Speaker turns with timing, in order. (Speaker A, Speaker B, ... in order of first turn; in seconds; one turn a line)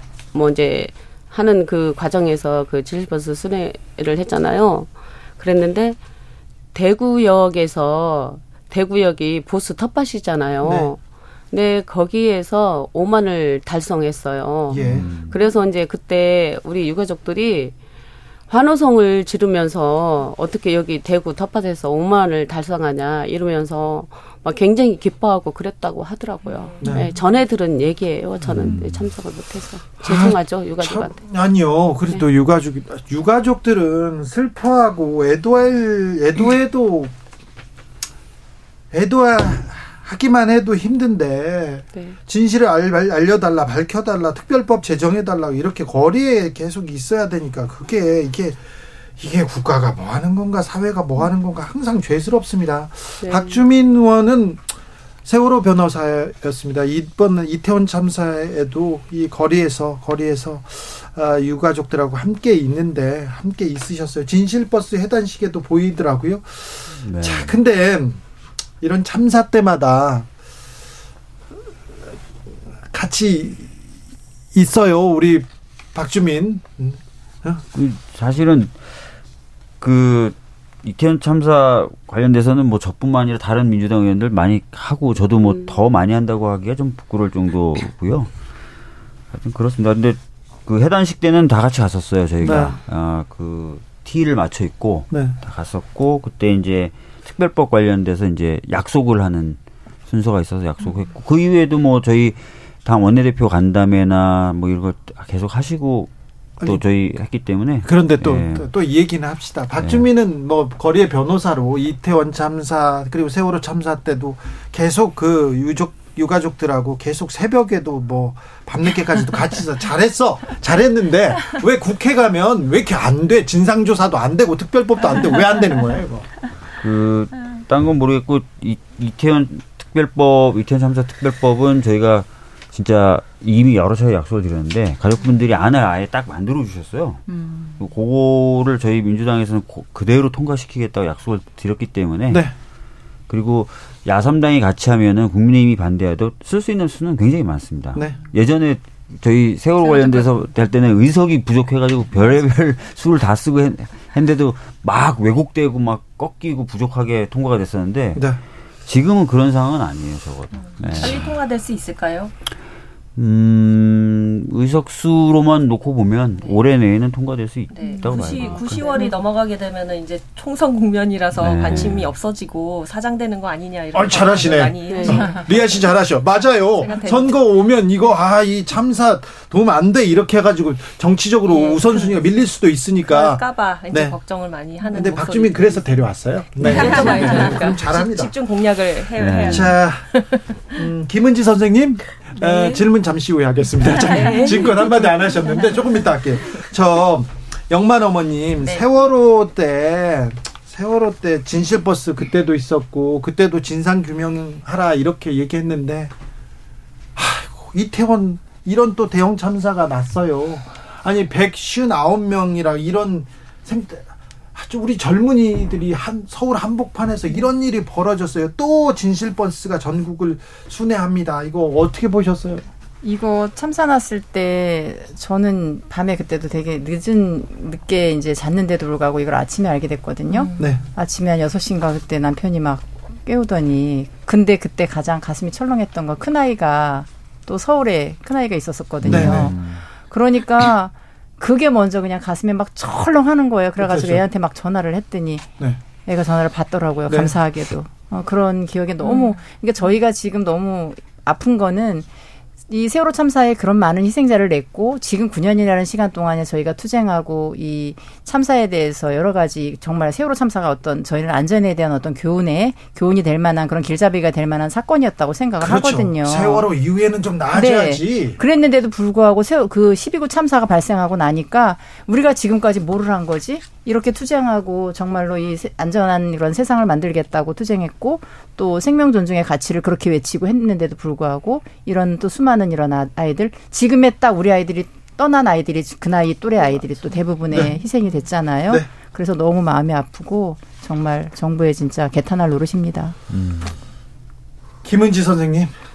Speaker A: 0.3-6.0
Speaker A: 6.7-17.8
Speaker B: 10.6-10.9
Speaker B: 14.7-15.2
Speaker C: 14.8-15.4
Speaker A: 18.5-31.2
Speaker D: 26.4-27.0
Speaker B: 26.8-27.1
Speaker B: 28.6-28.8
Speaker C: 28.6-29.1
Speaker B: 30.0-37.1
Speaker B: 38.9-48.6
Speaker B: 49.2-54.6
Speaker A: 53.2-53.6
Speaker B: 55.2-68.2
Speaker C: 66.9-67.6
Speaker B: 68.8-70.3
Speaker B: 72.9-73.7
Speaker B: 74.5-77.6
Speaker C: 77.7-78.8
Speaker C: 79.8-88.3
Speaker C: 89.3-108.7
Speaker B: 92.4-92.8
Speaker B: 95.1-95.4
Speaker B: 107.8-126.3
Speaker C: 109.8-110.1
Speaker C: 126.8-137.2
Speaker C: 137.8-142.5
Speaker C: 143.3-158.3
Speaker D: 149.9-150.3
Speaker B: 158.2-158.4
Speaker C: 158.8-161.4
Speaker D: 160.5-162.3
Speaker C: 163.2-168.9
Speaker D: 166.4-166.6
Speaker D: 167.7-175.9
Speaker C: 171.4-172.1
Speaker B: 173.9-184.2
Speaker A: 174.9-175.2
Speaker D: 176.7-177.5
Speaker D: 181.5-182.3
Speaker D: 183.1-185.8
Speaker B: 184.9-188.3
Speaker D: 186.6-189.8
Speaker C: 186.7-187.3
Speaker C: 189.2-189.7
Speaker B: 189.4-206.1
Speaker D: 192.4-192.8
Speaker D: 193.9-195.6
Speaker B: 207.2-222.7
Speaker E: 223.0-245.5
Speaker C: 239.0-239.8
Speaker B: 239.0-239.5
Speaker B: 243.8-244.2
Speaker E: 246.0-252.1
Speaker B: 247.1-247.4
Speaker E: 252.7-266.7
Speaker B: 265.6-268.4
Speaker E: 267.5-293.2
Speaker B: 287.5-287.8
Speaker C: 293.3-293.8
Speaker B: 294.8-295.7